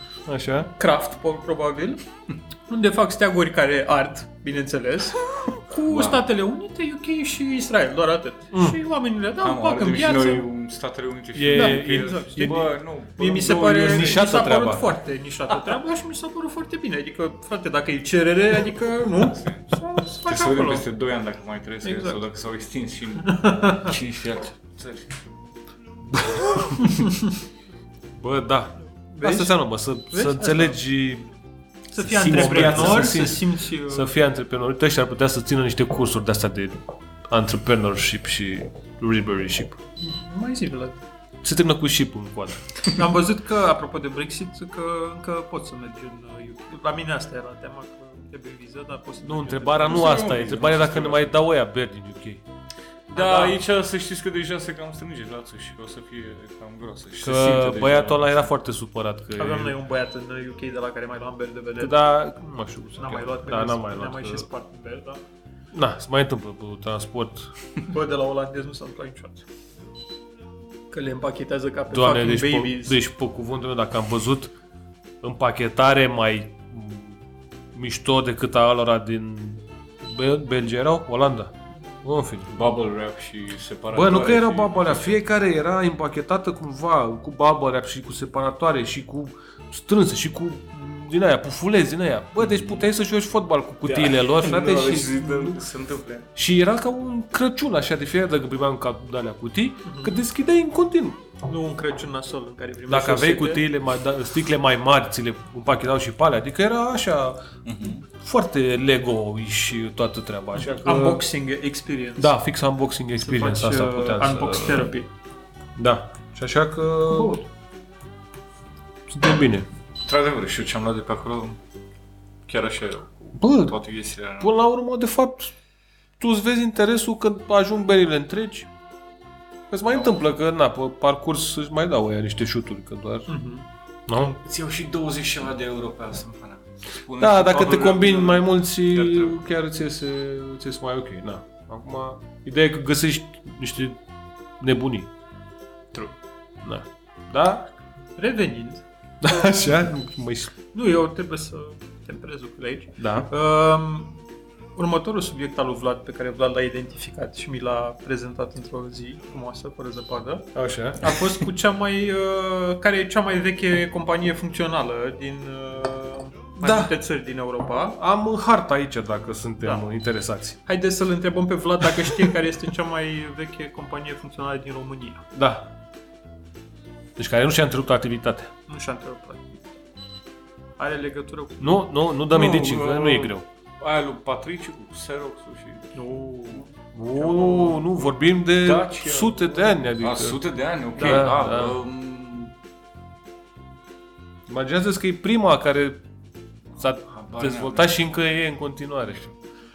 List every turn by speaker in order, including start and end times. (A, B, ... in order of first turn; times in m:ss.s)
0:00.2-0:00.7 A
0:00.8-0:02.0 B
0:02.7-0:10.4 B
0:05.9-0:06.2 C
0:08.5-0:08.8 A
0:09.4-0:14.2 C
0:11.3-0:12.7 A
0:11.5-0:20.8 B
0:13.4-0:14.9 A
0:19.2-0:19.7 C
0:20.2-0:25.0 C
0:21.8-0:22.2 B
0:23.2-0:23.9 B
0:26.1-0:26.9 A
0:26.8-0:27.3 B
0:28.1-0:31.3 A
0:29.1-0:29.6 B
0:30.1-0:30.8 B
0:31.9-0:34.1 B
0:32.0-0:39.8 A
0:32.3-0:33.1 C
0:40.0-0:41.0 B
0:41.4-0:42.6 A
0:42.9-0:50.2 B
0:49.2-0:52.4 A
0:49.8-0:51.3 C
0:53.1-0:58.4 C
0:53.1-0:53.6 B
0:57.2-0:59.8 A
0:59.4-1:02.0 B
1:01.8-1:04.5 A
1:03.0-1:05.2 B
1:05.7-1:07.5 A
1:07.8-1:09.4 B
1:10.9-1:13.0 B
1:11.9-1:14.5 A
1:15.2-1:17.2 A
1:17.7-1:22.5 A
1:22.5-1:25.2 C
1:23.9-1:35.6 A
1:32.4-1:32.8 C
1:33.8-1:36.3 C
1:36.4-1:41.2 A
1:39.8-1:40.2 B
1:41.4-1:43.6 B
1:42.9-1:47.4 A
1:47.6-1:48.0 C
1:48.1-1:51.2 A
1:50.6-1:52.4 B
1:52.2-1:54.9 A
1:53.2-1:55.1 B
1:55.8-1:57.4 A
1:57.1-1:57.4 B
1:59.1-1:59.7 A
2:00.0-2:01.6 C
2:02.5-2:04.5 C
2:03.4-2:03.8 A
2:04.4-2:05.5 A
2:06.2-2:08.7 A
2:09.7-2:13.3 A
2:13.3-2:13.6 B
2:14.1-2:14.4 A
2:14.2-2:19.4 C
2:17.2-2:24.0 A
2:24.6-2:25.1 A
2:26.6-2:27.7 A
2:28.2-2:28.8 B
2:29.2-2:30.5 A
2:30.7-2:34.2 B
2:33.0-2:33.3 A
2:34.8-2:48.0 B
2:40.5-2:41.1 A
2:46.6-2:46.9 A
2:48.0-2:50.6 A
2:50.6-2:55.2 B
2:55.3-2:55.7 A
2:57.2-2:58.5 A
2:58.7-2:59.7 B
3:00.8-3:01.8 B
3:01.6-3:03.4 A
3:02.3-3:06.0 C
3:05.9-3:07.8 B
3:06.9-3:10.4 A
3:08.5-3:12.5 C
3:11.0-3:11.3 B
3:11.0-3:11.8 A
3:14.5-3:16.0 A
3:16.8-3:19.3 A
3:17.0-3:18.0 C